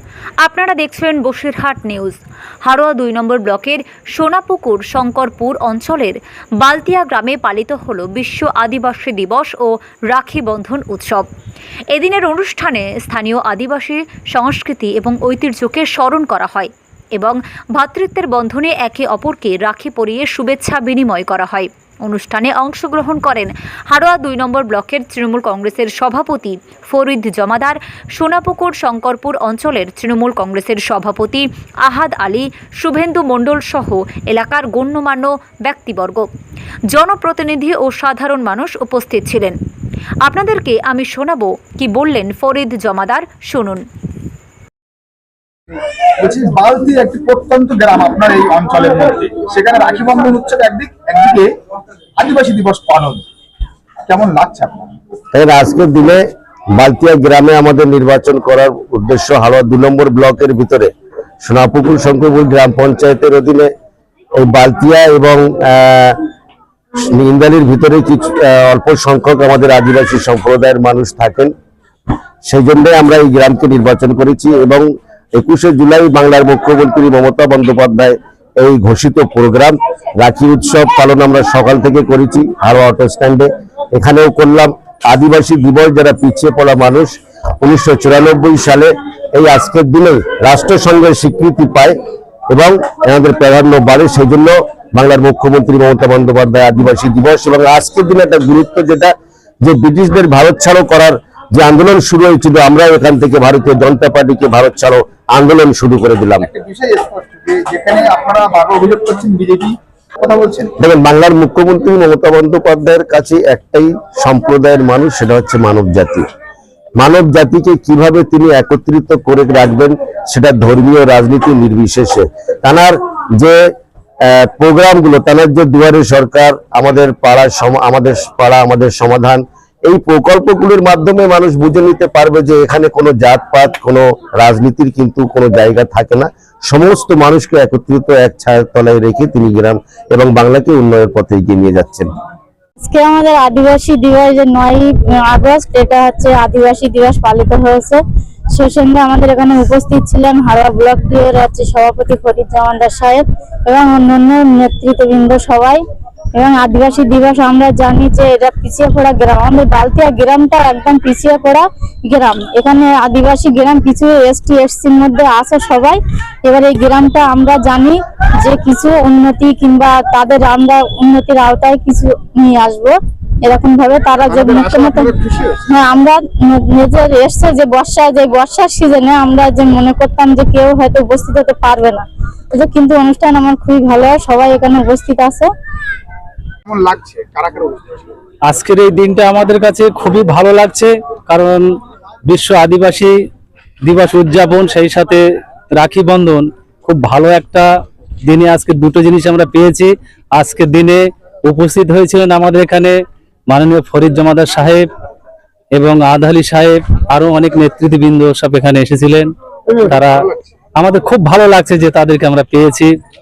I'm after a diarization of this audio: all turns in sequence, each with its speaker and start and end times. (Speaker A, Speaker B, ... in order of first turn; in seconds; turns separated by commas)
Speaker A: 0.4-11.3, Speaker A: 11.9-36.3, Speaker A: 36.9-39.6, Speaker A: 40.2-43.9, Speaker B: 46.2-51.5, Speaker B: 52.2-53.2, Speaker B: 54.1-55.0, Speaker C: 55.3-56.2, Speaker C: 56.8-60.9, Speaker C: 61.4-63.7, Speaker C: 64.4-66.2, Speaker C: 67.1-71.5, Speaker C: 72.5-92.0, Speaker C: 92.5-106.5, Speaker B: 106.4-110.7, Speaker C: 110.8-116.3, Speaker C: 117.0-123.6, Speaker C: 124.2-142.1, Speaker D: 142.8-148.0, Speaker D: 148.5-155.8, Speaker D: 156.4-175.1, Speaker B: 174.3-175.6, Speaker D: 175.7-185.5, Speaker B: 186.7-188.1, Speaker E: 188.4-191.7, Speaker E: 192.3-193.1, Speaker E: 193.8-197.7, Speaker E: 198.3-203.0, Speaker E: 203.5-204.9, Speaker E: 205.7-212.9